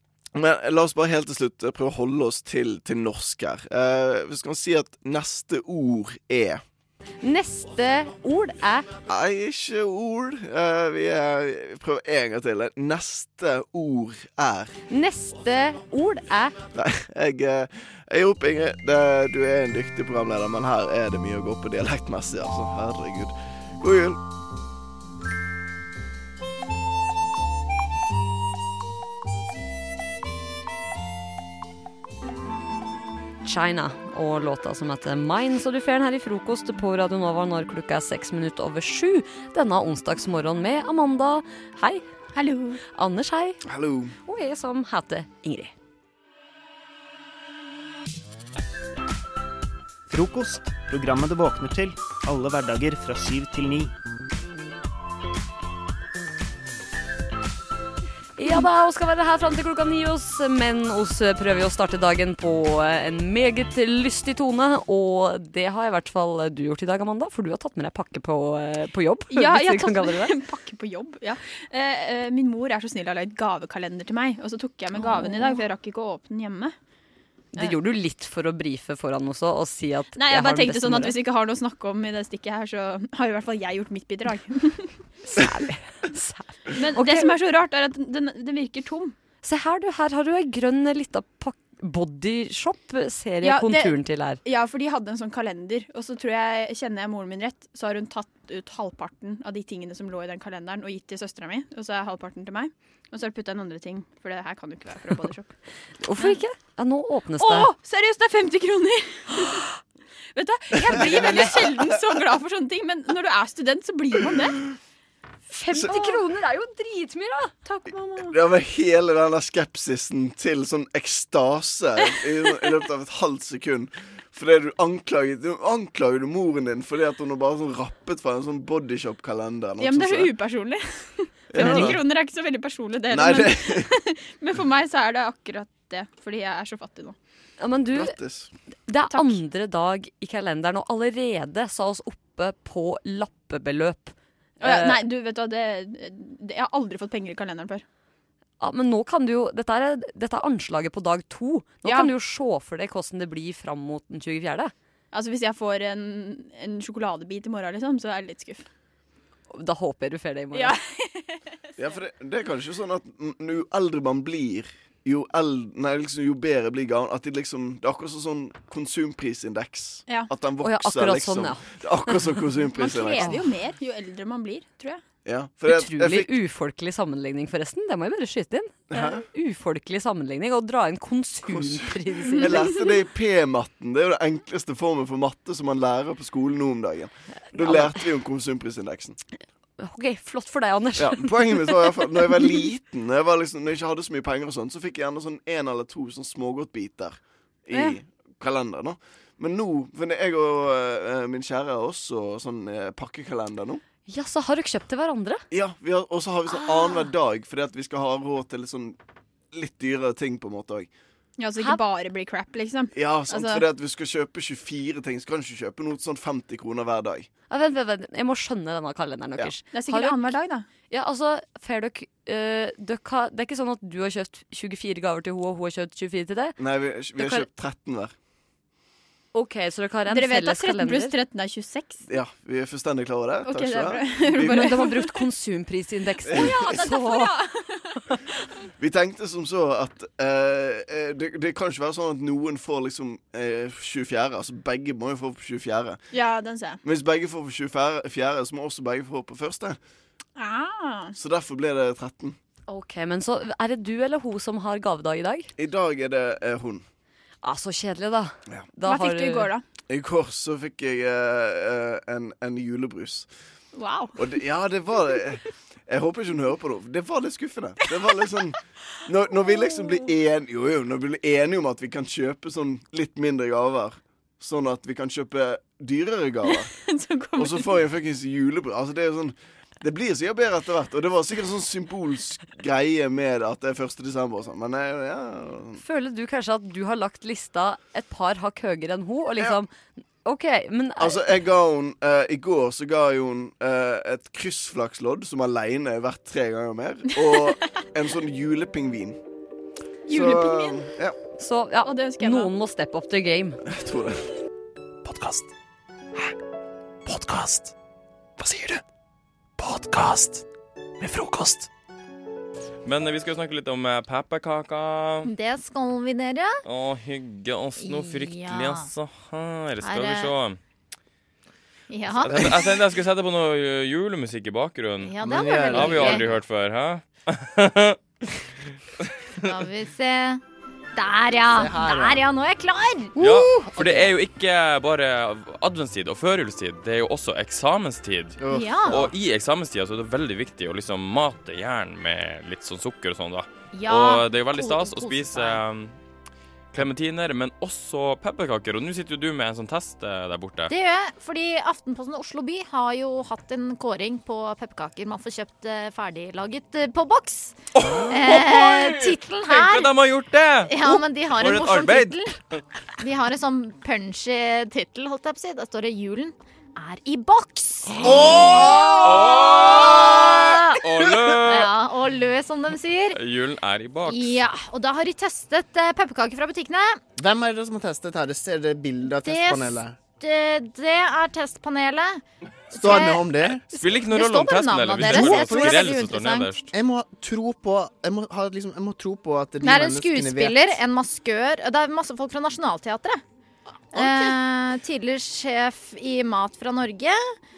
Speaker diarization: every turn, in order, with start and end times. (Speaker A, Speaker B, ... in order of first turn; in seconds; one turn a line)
Speaker A: 0.3-6.6
Speaker B: 7.2-8.9
Speaker A: 9.1-14.7
Speaker B: 14.9-16.6
Speaker A: 16.7-24.2
Speaker B: 33.4-42.0
Speaker C: 42.4-42.8
Speaker B: 42.9-43.6
Speaker A: 43.6-44.1
Speaker B: 44.2-45.7
Speaker D: 50.1-53.9
Speaker B: 58.4-70.3
Speaker C: 69.3-76.7
Speaker B: 75.0-75.5
Speaker B: 77.5-81.2
Speaker C: 80.2-84.9
Speaker B: 85.3-87.3
Speaker C: 86.8-89.2
Speaker B: 89.4-94.4
Speaker C: 93.4-105.5
Speaker B: 106.0-107.7
Speaker C: 107.4-109.7
Speaker C: 110.3-114.6
Speaker A: 110.9-111.5
Speaker B: 111.0-111.5
Speaker B: 115.5-117.5
Speaker C: 117.7-118.3
Speaker A: 118.3-130.3
Speaker C: 129.8-137.2
Speaker A: 131.5-132.0
Speaker B: 131.6-131.9
Speaker A: 133.1-133.9
Speaker B: 137.6-138.1
Speaker A: 137.9-138.5
Speaker B: 138.9-145.0
Speaker C: 139.1-139.4
Speaker C: 144.6-147.8
Speaker B: 148.6-154.7
Speaker C: 151.8-152.1
Speaker C: 155.1-158.6
Speaker B: 159.5-160.8
Speaker C: 160.5-161.4
Speaker A: 161.8-173.4
Speaker B: 170.6-172.2
Speaker C: 172.8-175.0
Speaker B: 173.2-173.5
Speaker A: 175.2-176.3
Speaker B: 175.7-182.7
Speaker A: 178.9-179.2
Speaker A: 181.5-189.2
Speaker B: 187.6-187.9
Speaker B: 189.8-191.7
Speaker A: 191.0-203.8
Speaker B: 204.1-205.4
Speaker A: 205.5-209.0
Speaker A: 209.5-210.9
Speaker C: 211.4-213.7
Speaker A: 212.9-217.3
Speaker B: 217.5-220.3
Speaker C: 219.7-220.7
Speaker B: 220.9-226.6
Speaker A: 226.6-228.1
Speaker B: 227.2-227.5
Speaker B: 229.3-231.2
Speaker C: 230.1-232.0
Speaker A: 232.1-234.7
Speaker C: 233.4-235.1
Speaker B: 234.4-237.3
Speaker A: 236.3-236.6
Speaker C: 236.4-237.8
Speaker A: 238.8-246.0
Speaker C: 246.1-246.8
Speaker A: 246.8-249.8
Speaker C: 250.4-251.2
Speaker A: 251.1-252.4
Speaker B: 252.7-255.5
Speaker A: 255.6-256.8
Speaker B: 257.4-259.5
Speaker C: 258.9-259.6
Speaker A: 259.9-263.3
Speaker C: 263.8-264.2
Speaker A: 264.2-276.7
Speaker C: 276.9-277.7
Speaker A: 277.4-285.8
Speaker B: 285.8-289.7
Speaker B: 290.2-291.2
Speaker A: 291.0-299.2
Speaker C: 300.1-300.8
Speaker A: 300.1-301.1
Speaker B: 301.4-303.6
Speaker C: 301.8-302.5
Speaker A: 303.7-304.2
Speaker E: 305.0-305.5
Speaker E: 307.1-307.7
Speaker E: 308.4-308.8
Speaker E: 309.6-310.4
Speaker E: 311.0-311.7
Speaker F: 312.9-315.3
Speaker G: 315.2-316.6
Speaker F: 316.6-320.6
Speaker G: 317.8-318.9
Speaker G: 319.8-320.3
Speaker G: 321.9-322.6
Speaker F: 322.1-328.0
Speaker G: 325.1-326.3
Speaker H: 325.2-326.2
Speaker G: 329.5-330.4
Speaker G: 330.9-333.2
Speaker H: 331.5-332.2
Speaker F: 333.2-346.0
Speaker H: 333.2-334.1
Speaker H: 338.4-339.1
Speaker G: 338.5-339.0
Speaker G: 343.7-345.6
Speaker F: 346.7-350.7
Speaker G: 350.7-360.0
Speaker F: 357.8-362.6
Speaker G: 360.7-362.4
Speaker G: 363.0-368.1
Speaker F: 367.9-371.7
Speaker H: 368.1-369.3
Speaker G: 368.6-370.8
Speaker G: 371.4-373.2
Speaker F: 373.1-374.4
Speaker G: 374.1-377.0
Speaker H: 377.2-380.0
Speaker G: 379.1-382.2
Speaker H: 382.7-383.6
Speaker G: 382.8-386.6
Speaker F: 383.5-386.7
Speaker H: 385.0-386.0
Speaker H: 386.7-390.8
Speaker G: 389.6-393.2
Speaker G: 393.9-397.2
Speaker H: 393.9-394.4